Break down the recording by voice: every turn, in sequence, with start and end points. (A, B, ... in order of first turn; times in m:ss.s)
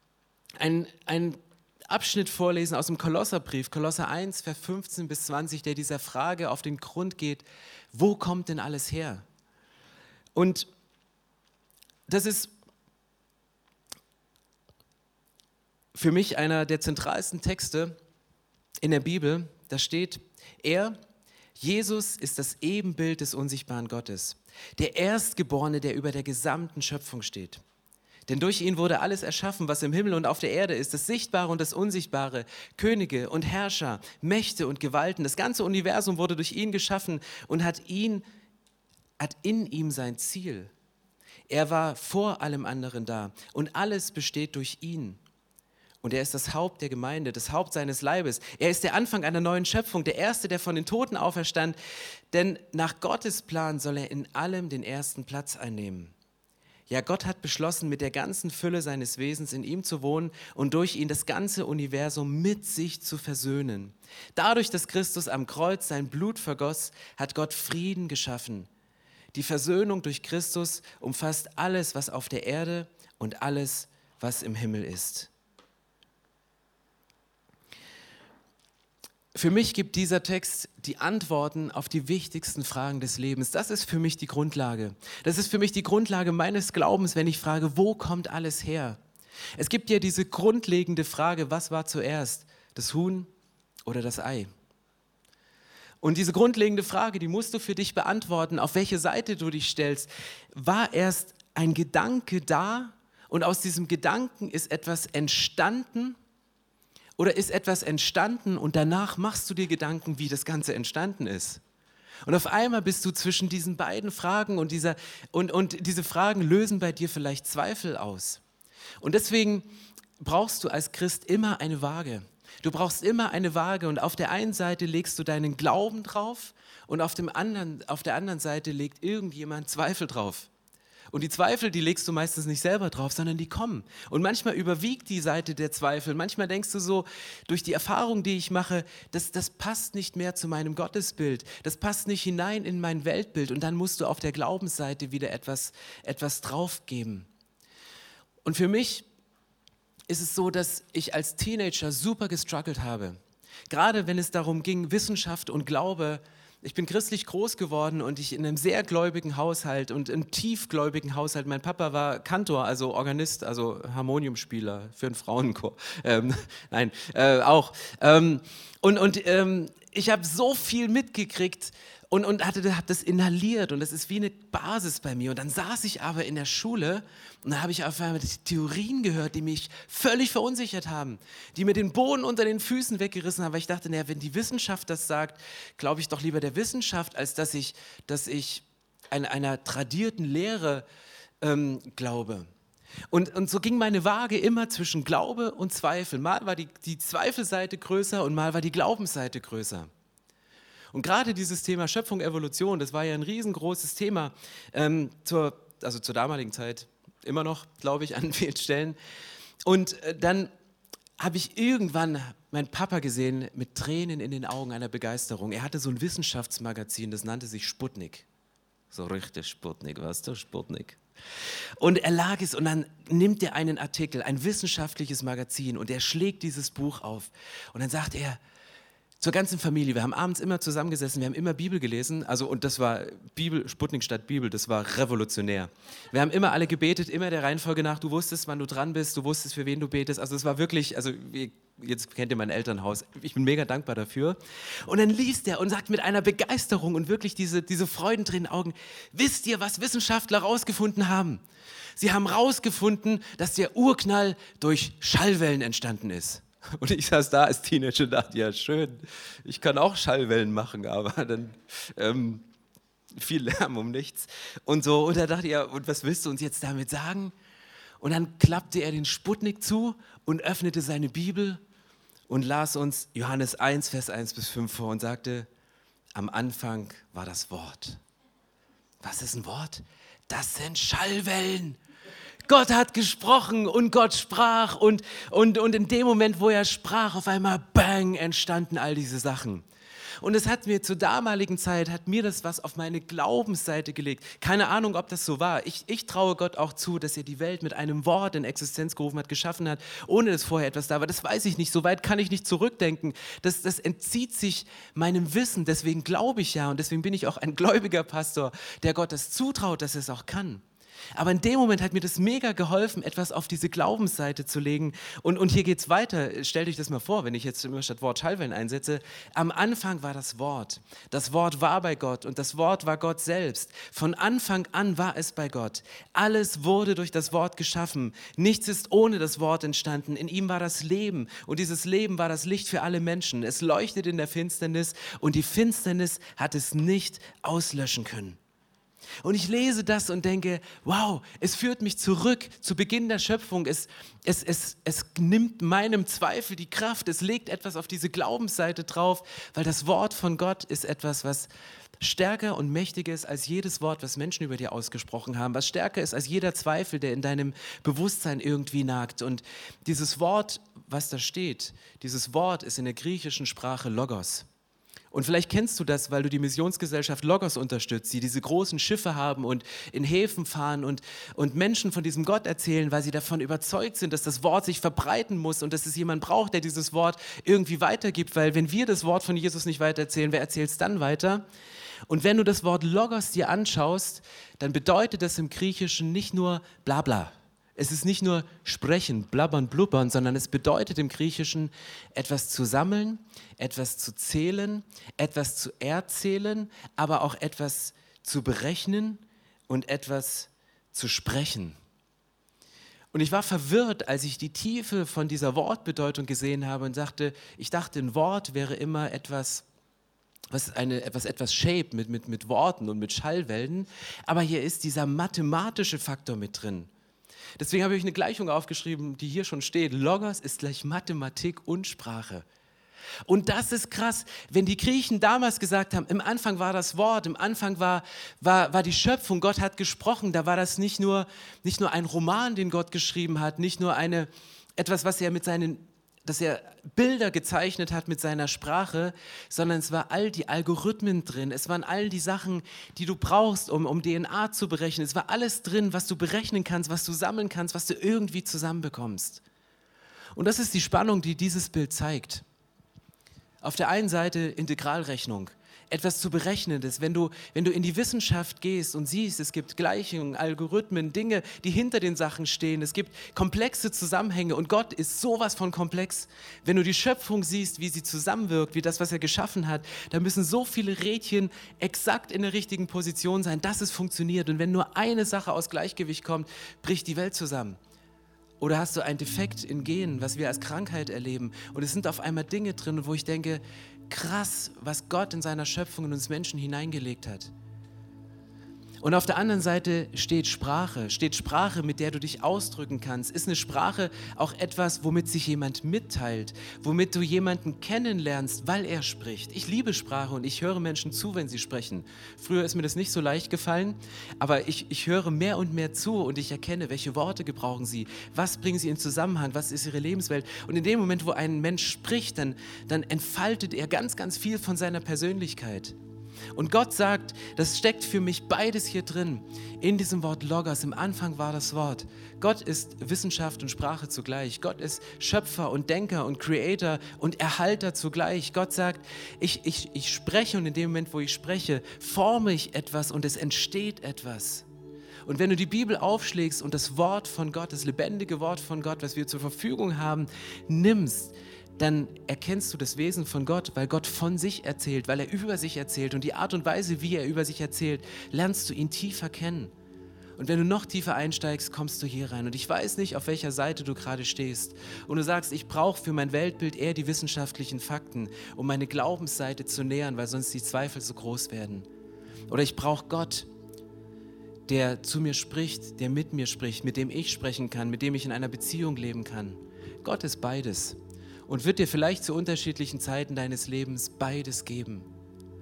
0:00.6-0:09.2 A
0:10.3-0:10.7 A
0:12.1-0:12.5 A
0:15.9-0:18.0 A
0:18.8-0:21.0 A
0:21.6-0:27.6 A
0:28.3-0:38.2 A
0:39.2-0:40.7 A
0:41.5-0:45.2 A
0:46.0-0:51.8 A
0:52.3-0:56.1 A
0:56.9-1:08.7 A
1:09.3-1:15.3 A
1:19.3-1:29.0 A
1:29.6-1:33.3 A
1:33.8-1:34.5 A
1:36.0-1:46.2 A
1:47.2-1:51.6 A
1:52.2-1:58.4 A
1:59.0-1:59.7 A
2:00.2-2:10.5 A
2:11.1-2:27.3 A
2:28.4-2:29.0 A
2:30.1-2:33.2 A
2:33.7-3:10.8 A
3:11.4-3:12.5 A
3:13.1-3:19.9 A
3:20.9-3:29.0 A
3:29.6-3:30.5 A
3:31.2-3:38.2 A
3:38.9-3:48.4 A
3:49.2-4:11.4 A
4:12.0-4:22.4 A
4:23.2-4:27.3 A
4:28.0-4:31.6 A
4:32.3-4:35.5 A
4:36.1-4:38.0 A
4:39.0-4:41.8 A
4:42.4-4:49.6 A
4:50.2-5:10.6 A
5:11.1-5:38.4 A
5:39.2-6:04.5 A
6:05.1-6:21.4 A
6:22.1-6:41.8 A
6:43.1-6:49.6 A
6:50.5-6:56.9 A
6:57.6-7:02.4 A
7:03.2-7:29.4 A
7:30.3-7:32.4 A
7:33.6-7:57.8 A
7:58.6-8:07.5 A
8:09.0-8:35.9 A
8:36.5-8:54.6 A
8:55.2-9:09.7 A
9:10.4-9:21.9 A
9:22.5-9:23.5 A
9:24.7-9:35.1 A